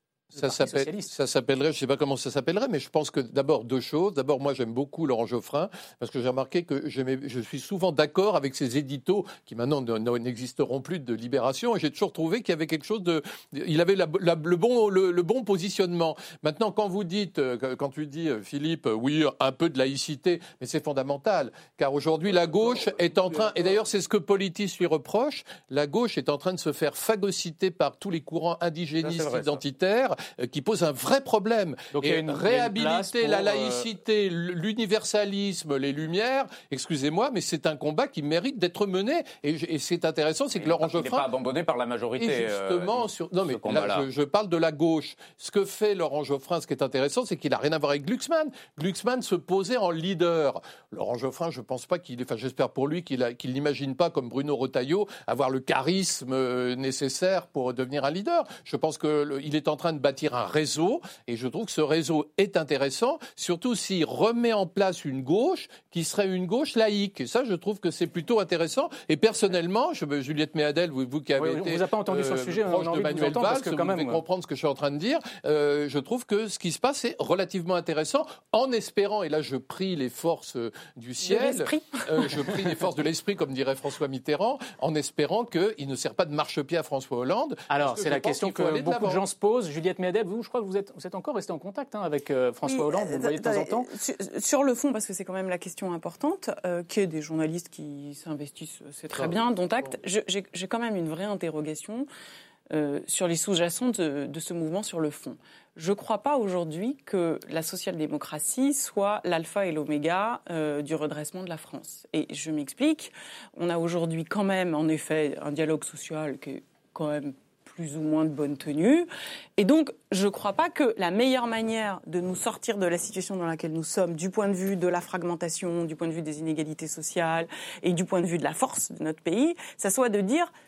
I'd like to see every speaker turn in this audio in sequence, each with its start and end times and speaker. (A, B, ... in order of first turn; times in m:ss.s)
0:00.3-0:41.3 A
0:00.3-0:01.1 B
0:29.0-0:29.6 C
0:31.9-0:33.9 B
0:40.6-0:44.0 C
0:42.2-1:29.2 A
1:11.4-1:14.2 B
1:21.2-1:22.6 D
1:27.7-1:33.9 B
1:32.7-1:42.1 D
1:42.7-2:10.5 D